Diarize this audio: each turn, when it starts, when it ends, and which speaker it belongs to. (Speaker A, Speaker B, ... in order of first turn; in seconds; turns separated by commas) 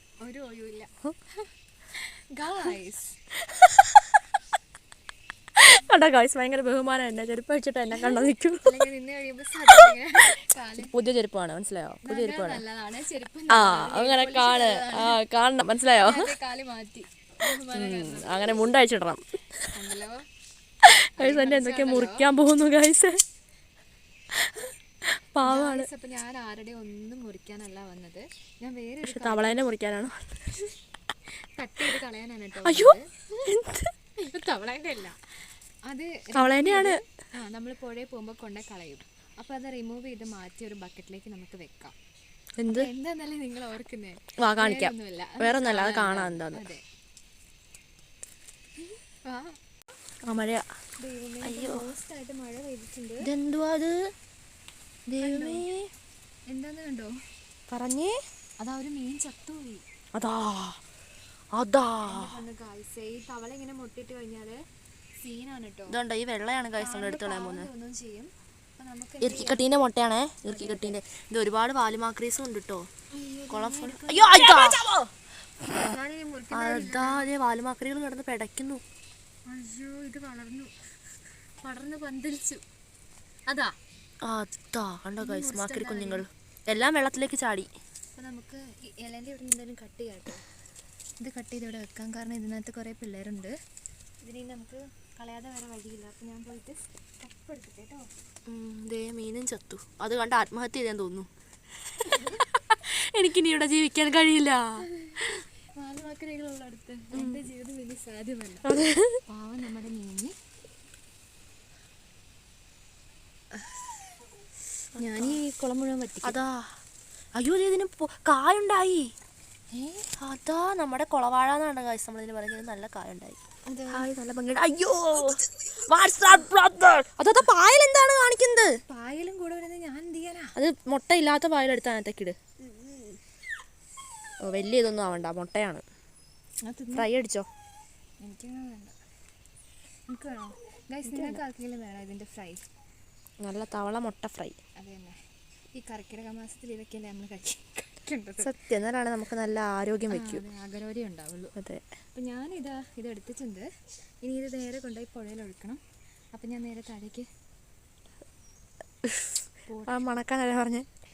Speaker A: 0.2-3.2, Speaker B: 3.5-4.0, Speaker B: 5.6-8.7, Speaker A: 8.0-10.9, Speaker B: 10.8-12.6, Speaker A: 12.0-15.2, Speaker B: 13.5-16.3, Speaker A: 15.9-18.7, Speaker B: 17.7-19.7, Speaker A: 19.7-20.3, Speaker B: 20.9-23.2, Speaker A: 21.2-22.3, Speaker B: 25.1-25.9, Speaker A: 25.4-29.6, Speaker B: 29.0-30.4, Speaker A: 31.6-33.4, Speaker B: 32.6-33.9, Speaker A: 34.2-42.0, Speaker B: 36.3-37.0, Speaker B: 42.6-42.9, Speaker A: 42.7-46.8, Speaker B: 44.4-46.7, Speaker A: 48.8-49.6, Speaker B: 50.2-50.7, Speaker A: 51.0-53.3, Speaker B: 51.4-51.8, Speaker B: 53.2-54.0, Speaker B: 55.1-55.9, Speaker A: 55.2-55.6, Speaker A: 56.5-57.1, Speaker B: 57.7-58.2, Speaker A: 58.6-59.8, Speaker B: 60.1-60.8, Speaker B: 61.5-62.4, Speaker A: 62.0-64.6, Speaker A: 65.2-66.0, Speaker B: 65.9-67.7, Speaker A: 66.8-69.7, Speaker B: 69.2-72.9, Speaker A: 70.5-71.0, Speaker A: 73.1-75.1, Speaker B: 73.5-74.9, Speaker A: 75.6-77.3, Speaker B: 76.5-78.8, Speaker A: 79.5-80.7, Speaker A: 81.6-82.6, Speaker A: 83.5-83.8, Speaker B: 84.2-87.7, Speaker A: 85.2-86.3, Speaker A: 88.2-90.5, Speaker A: 91.2-93.5, Speaker A: 94.2-98.1, Speaker B: 98.5-101.3, Speaker B: 102.0-105.4, Speaker A: 102.1-102.5, Speaker A: 104.9-108.8, Speaker B: 107.1-107.4, Speaker B: 108.7-109.2, Speaker A: 109.3-110.3, Speaker A: 113.5-113.9, Speaker B: 115.0-115.4, Speaker A: 115.0-116.4, Speaker B: 116.2-116.7, Speaker B: 117.4-119.1, Speaker A: 119.7-120.1, Speaker B: 120.2-128.8, Speaker A: 123.7-124.1, Speaker A: 128.9-130.6, Speaker B: 130.5-132.3, Speaker A: 132.7-133.0, Speaker B: 134.4-135.8, Speaker A: 136.7-137.1, Speaker B: 136.9-137.5, Speaker A: 138.2-139.0, Speaker A: 140.1-142.6, Speaker B: 141.1-141.4, Speaker B: 143.4-144.6, Speaker A: 144.8-145.2, Speaker A: 145.7-148.6, Speaker B: 148.4-150.4, Speaker A: 150.1-151.6, Speaker B: 151.6-151.8, Speaker A: 152.2-153.7, Speaker A: 154.2-155.8, Speaker A: 156.3-157.3, Speaker B: 159.0-159.3, Speaker A: 159.7-160.0, Speaker B: 159.9-160.9